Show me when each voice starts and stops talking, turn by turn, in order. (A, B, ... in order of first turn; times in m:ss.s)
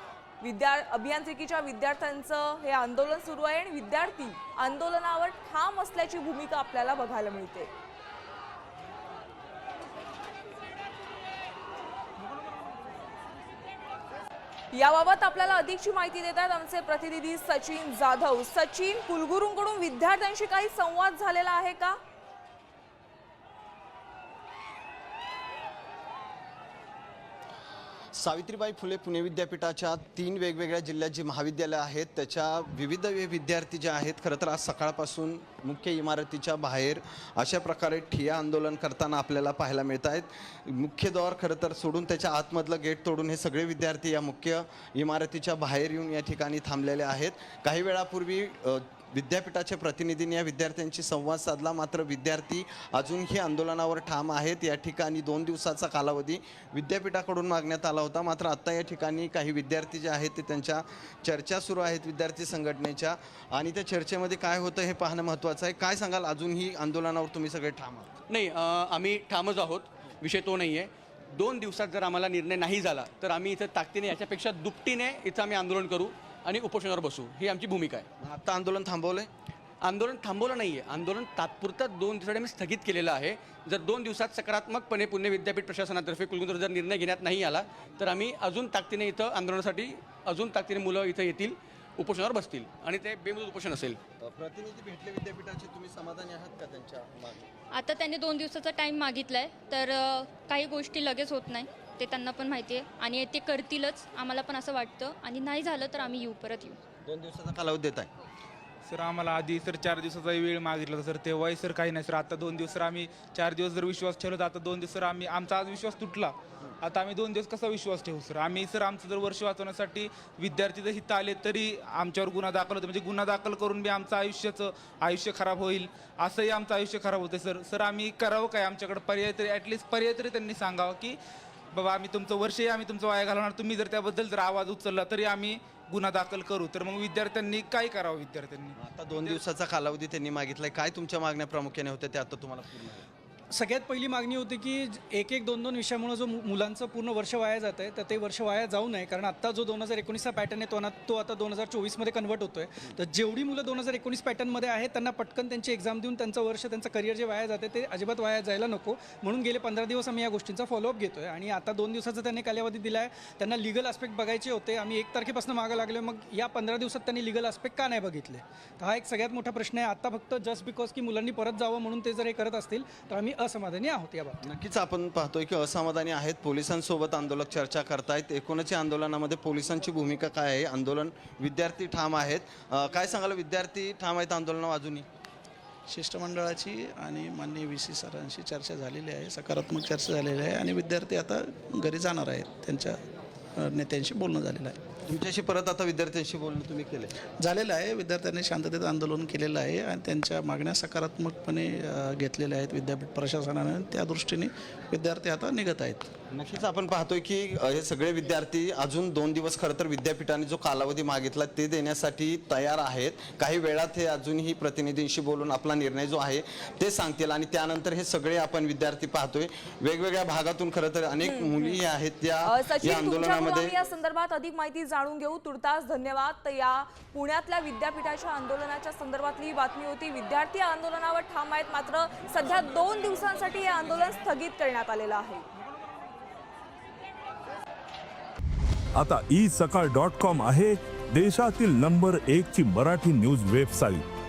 0:00.4-0:07.7 A
0:14.7-0:22.0 A
0:28.1-1:08.1 B
1:08.3-1:18.0 C
1:18.2-1:19.3 B
1:19.8-1:34.0 C
1:34.2-1:37.5 B
1:37.7-1:46.8 D
1:47.0-1:48.1 B
1:48.8-2:11.2 E
2:11.7-2:18.8 E
2:18.8-2:23.1 B
2:23.5-2:54.4 F
2:54.4-3:05.0 B
3:05.9-3:13.0 G
3:13.6-3:14.8 G
3:15.1-3:17.1 B
3:17.4-3:26.1 G
3:26.3-3:43.8 B
3:41.2-3:41.7 A
3:42.4-3:55.4 A
3:58.9-4:04.0 H